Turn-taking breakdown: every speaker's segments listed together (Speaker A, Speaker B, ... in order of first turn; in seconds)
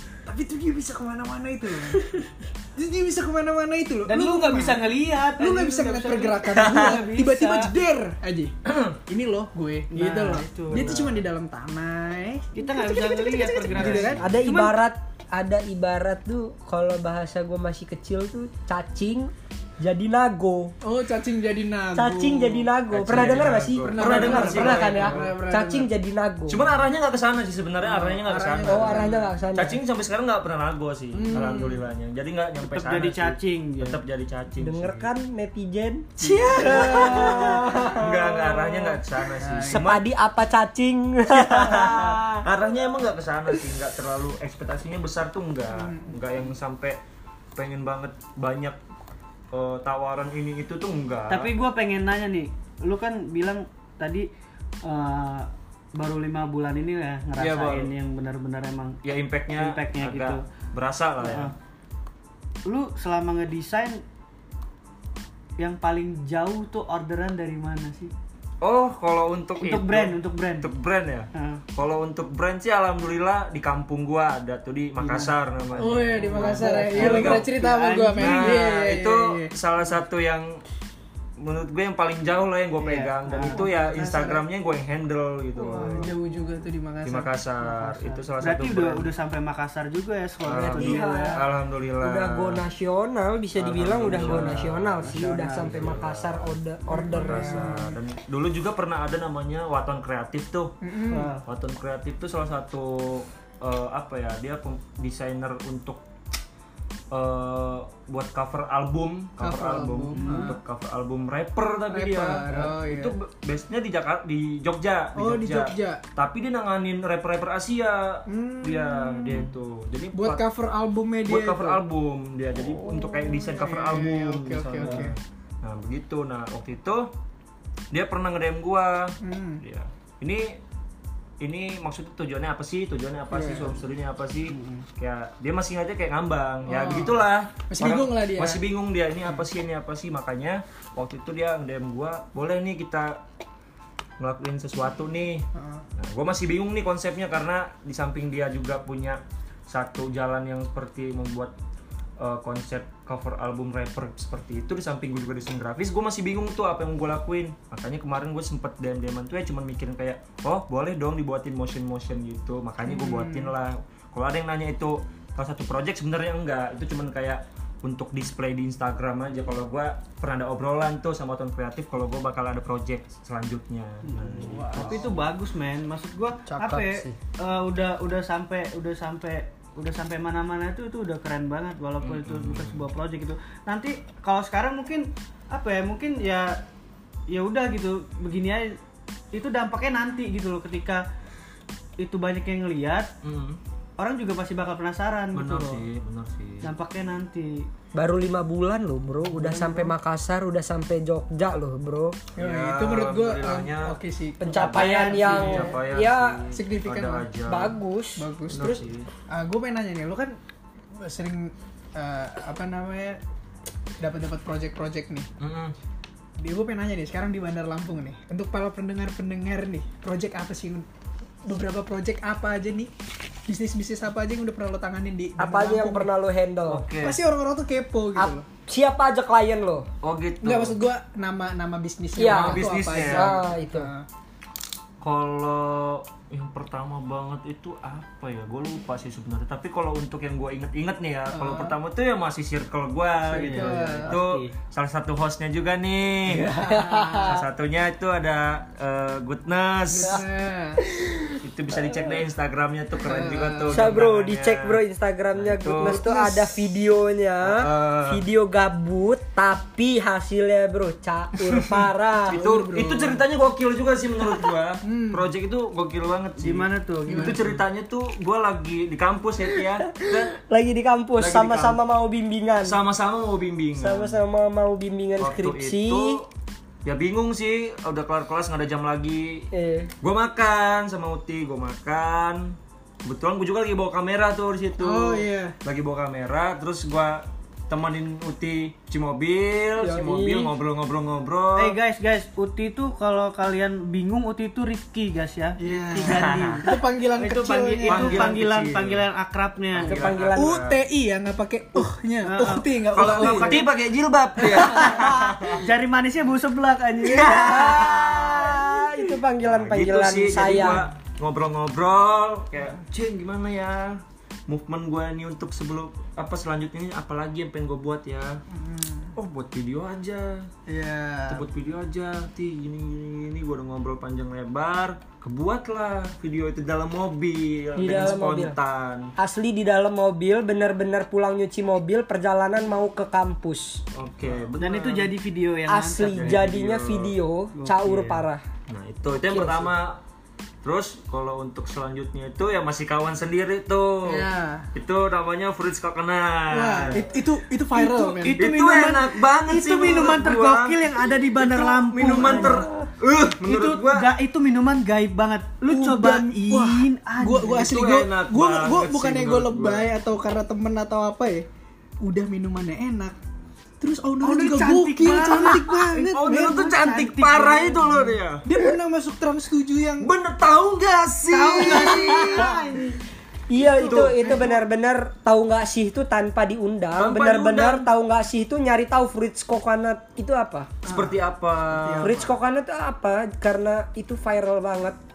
Speaker A: 0.2-4.8, 5.4-14.2, 20.8-25.9, 27.8-29.3, 31.1-31.8, 36.2-37.5, 39.4-39.8, 45.7-46.1, 75.8-79.5, 83.5-84.4, 85.6-87.3, 96.9-98.0, 100.8-101.3, 109.4-110.6, 111.9-113.1, 115.2-116.0, 118.3-119.5, 120.1-121.8, 122.8-125.1, 129.2-129.6, 133.3-133.7, 136.7-138.6, 145.5-145.8, 162.8-163.5, 174.2-175.1, 199.4-199.7, 202.3-205.7, 206.5-207.3, 208.2-208.7, 209.3-210.3, 210.9-213.2, 214.0-215.3, 216.4-220.8, 221.4-222.9, 223.5-226.1, 227.0-228.4, 230.4-234.1, 241.3-241.7, 243.3-244.1, 246.3-247.4, 249.9-250.8, 253.0-253.9, 255.8-256.6, 262.3-263.2, 264.8-265.2, 267.1-267.5, 284.8-285.6, 295.6-298.3, 300.3-303.6, 304.4-305.0, 318.5-319.1, 320.7-321.4, 344.0-344.7, 346.5-348.4, 355.7-361.4, 362.0-363.2, 363.8-366.7, 368.4-370.1, 374.2-374.6, 380.8-382.3
Speaker B: 4.1-7.7, 9.9-10.9, 12.5-14.8, 32.6-34.0, 36.3-37.8, 51.3-54.3, 54.8-59.0, 59.5-60.4, 61.2-61.5, 62.6-64.0, 65.6-68.1, 69.6-70.7, 71.3-71.6, 75.0-75.3, 76.2-78.7, 82.8-83.7, 85.6-86.0, 87.6-91.4, 94.1-96.0, 101.1-101.4, 110.1-110.6, 174.1-186.6, 187.3-188.8, 189.3-191.0, 192.0-193.1, 194.0-195.8, 196.6-197.7, 243.3-244.5, 266.4-267.6, 291.6-300.0, 302.2-303.7, 305.6-307.8, 334.6-336.4, 337.6-337.9, 347.7-352.9, 353.4-357.7, 364.2-368.1, 371.3-373.0
Speaker C: 8.7-8.9, 10.7-11.2, 13.7-14.5, 22.9-25.3, 26.5-35.1, 36.5-40.0, 41.3-47.0, 47.5-48.8, 49.5-51.5, 57.4-57.9, 59.0-61.5, 68.6-77.5, 78.2-80.6, 81.4-86.1, 87.0-89.1, 90.4-92.6, 93.5-96.5, 97.1-100.8, 101.4-106.0, 107.1-120.4, 121.3-127.1, 127.9-130.6, 131.4-143.2, 144.2-145.5, 146.0-151.5, 152.2-175.2, 182.0-182.8, 193.2-193.6, 195.3-196.7, 202.4-204.0, 204.5-207.8, 208.5-209.1, 215.4-215.7, 226.7-227.2, 230.0-230.8, 232.2-233.3, 235.0-246.6, 247.2-250.2, 251.4-254.8, 255.3-256.0, 257.4-258.2, 262.3-270.3, 271.2-271.8, 272.6-274.2, 275.2-276.3, 276.8-279.5, 280.0-291.8, 296.0-296.6, 297.9-299.1, 299.7-300.8, 302.9-305.6, 307.0-308.6, 309.4-318.4, 319.1-320.5, 321.3-329.1, 333.9-335.1, 336.1-337.1, 337.8-338.1, 338.7-340.0, 340.6-347.1, 348.4-354.1, 357.6-359.9, 366.0-368.4, 370.0-372.6, 373.8-374.2, 377.0-377.9, 380.9-382.2
Speaker D: 14.2-20.7, 21.9-26.7, 28.6-29.8, 34.6-38.8, 39.7-42.4, 90.7-91.4, 92.0-97.8, 176.5-177.2, 197.9-202.2, 204.4-206.4, 207.5-208.8, 225.4-226.8, 228.2-229.9, 232.2-233.9, 246.7-247.4, 250.8-251.4, 253.7-262.4, 269.6-272.8, 273.8-276.2, 279.5-279.9, 289.8-290.5, 299.8-300.6, 307.1-310.9, 327.8-328.6, 329.2-333.8, 335.7-338.4, 339.3-339.7, 372.1-372.5, 373.5-380.7, 382.0-385.0